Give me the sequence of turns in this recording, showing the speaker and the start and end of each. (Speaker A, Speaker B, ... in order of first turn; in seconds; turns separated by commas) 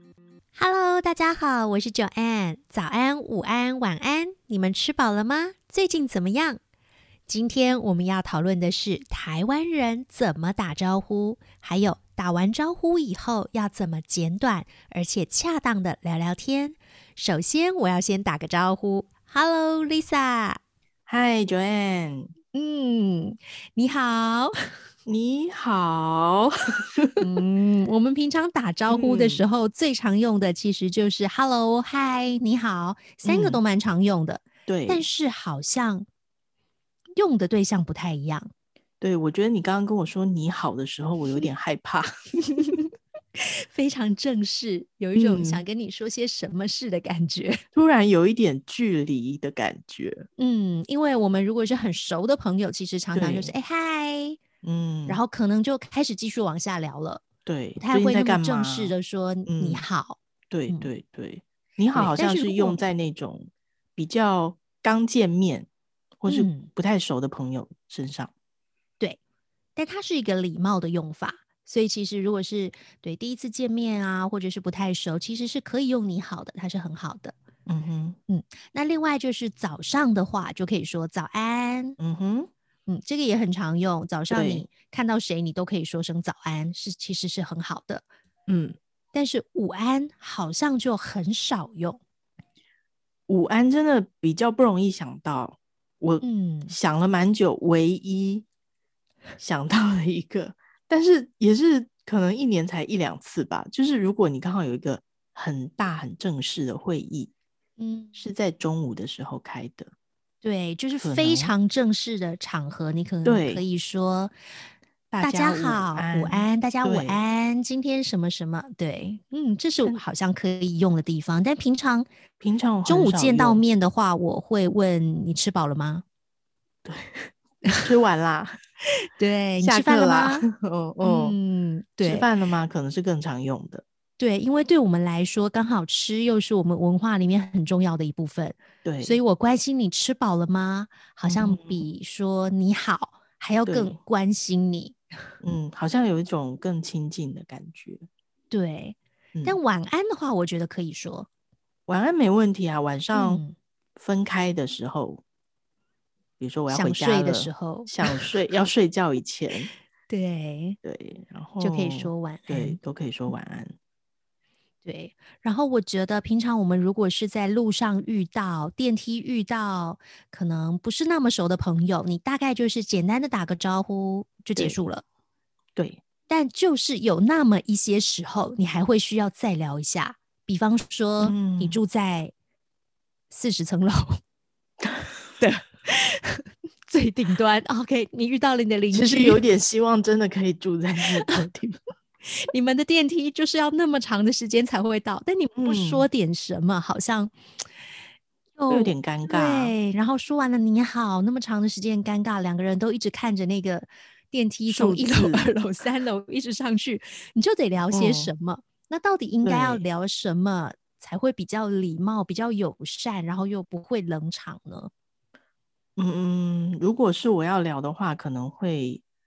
Speaker A: 0.6-6.6, Speaker A: 7.3-20.6, Speaker B: 21.1-22.3, Speaker A: 22.5-24.5, Speaker B: 25.1-27.2, Speaker A: 27.2-36.0, Speaker B: 28.9-29.4, Speaker B: 33.2-33.6, Speaker B: 34.7-35.0, Speaker A: 37.1-38.5, Speaker B: 39.0-42.1, Speaker A: 42.4-47.6, Speaker B: 45.1-45.6, Speaker B: 47.7-50.2, Speaker A: 50.4-54.4, Speaker B: 53.1-53.5, Speaker B: 54.6-55.2, Speaker A: 55.1-57.2, Speaker B: 57.5-58.9, Speaker A: 57.8-60.9, Speaker B: 59.5-59.8, Speaker B: 60.5-65.7, Speaker A: 61.9-62.8, Speaker B: 66.2-68.3, Speaker A: 66.3-66.7, Speaker A: 69.8-77.3, Speaker B: 77.7-78.2, Speaker A: 78.3-82.0, Speaker B: 82.0-82.5, Speaker A: 82.9-88.0, Speaker B: 84.3-84.7, Speaker B: 88.5-88.8, Speaker A: 89.1-92.0, Speaker B: 93.3-98.4, Speaker A: 96.2-96.7, Speaker B: 99.4-107.3, Speaker A: 107.8-108.1, Speaker B: 108.2-109.9, Speaker A: 110.4-114.3, Speaker B: 111.0-111.5, Speaker B: 113.2-113.6, Speaker B: 115.1-117.2, Speaker A: 115.2-122.1, Speaker B: 122.4-123.7, Speaker A: 122.8-126.0, Speaker B: 126.8-128.5, Speaker A: 129.2-130.4, Speaker B: 129.6-131.4, Speaker A: 131.0-132.3, Speaker B: 132.0-133.8, Speaker A: 134.2-145.0, Speaker B: 138.8-139.2, Speaker B: 141.2-141.9, Speaker B: 143.7-143.9, Speaker B: 145.4-148.1, Speaker A: 148.5-151.3, Speaker B: 151.9-153.4, Speaker A: 153.1-153.5, Speaker B: 153.9-155.2, Speaker B: 156.4-159.7, Speaker A: 156.7-158.3, Speaker A: 160.1-160.8, Speaker B: 160.8-163.7, Speaker A: 161.6-162.8, Speaker A: 164.8-175.0, Speaker B: 175.8-176.0, Speaker A: 176.3-182.3, Speaker B: 181.2-181.8, Speaker A: 183.3-184.2, Speaker B: 184.8-185.1, Speaker A: 185.4-189.4, Speaker B: 188.9-191.8, Speaker A: 192.2-197.3, Speaker B: 195.6-196.1, Speaker A: 198.6-214.9, Speaker B: 198.7-199.8, Speaker B: 204.7-205.5, Speaker B: 207.9-208.3, Speaker B: 209.4-209.8, Speaker B: 216.0-219.0